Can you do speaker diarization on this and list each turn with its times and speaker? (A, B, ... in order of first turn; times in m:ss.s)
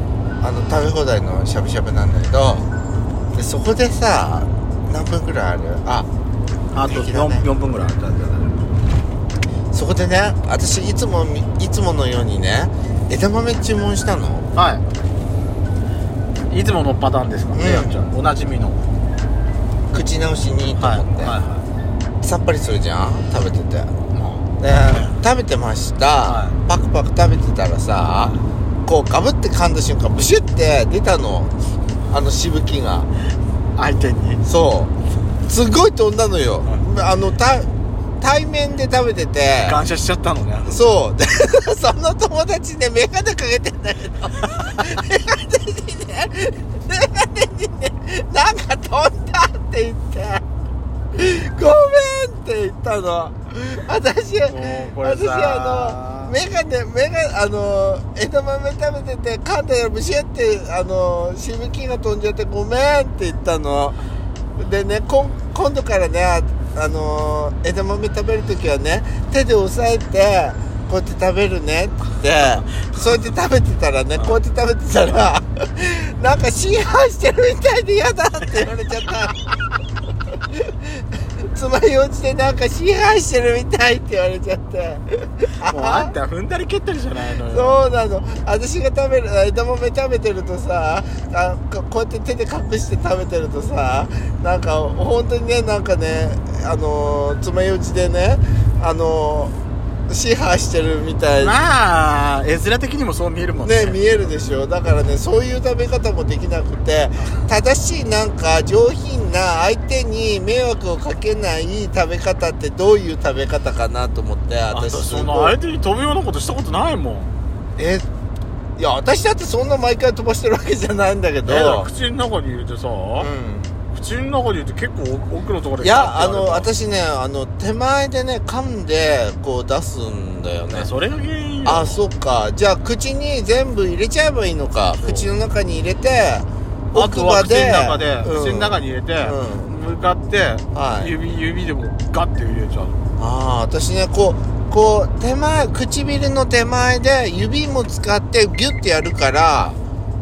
0:00.4-0:02.6 A
0:03.3-0:06.1 A
0:06.7-0:08.5 B
0:06.8-0:07.5 A
0:09.7-0:14.5 A
0:14.5-0:14.8 B
0:16.5-0:18.8 B
0:17.5-0:18.0 A
0:19.9-0:21.4 A
0:20.8-0:21.6 B
0:22.2-0:23.9 A
0:24.1-0:25.2 B
0:24.6-0:28.3 A
0:26.2-0:26.6 B
0:28.8-0:31.5 A
0:32.1-0:33.1 A
0:33.8-0:34.4 B
0:34.4-0:34.9 A
0:35.5-0:37.7 A
0:38.2-0:39.8 A
0:39.6-0:40.9 B
0:40.7-0:50.4 A
0:51.1-1:04.0 A
0:54.4-0:56.4 B
1:04.6-1:19.4 A
1:12.7-1:13.1 B
1:20.5-1:26.1 A
1:25.7-1:27.8 B
1:27.4-1:39.6 A
1:40.1-1:41.6 A
1:41.4-1:44.2 B
1:43.6-1:55.6 A
1:54.7-1:57.3 B
1:57.8-1:58.0 A
1:58.8-2:01.9 A
2:01.4-2:03.3 B
2:03.2-2:03.7 A
2:03.9-2:06.7 B
2:05.8-2:10.9 A
2:10.7-2:12.0 B
2:11.6-2:19.7 A
2:15.0-2:15.3 B
2:16.9-2:23.0 B
2:20.7-2:21.1 A
2:23.2-2:29.8 A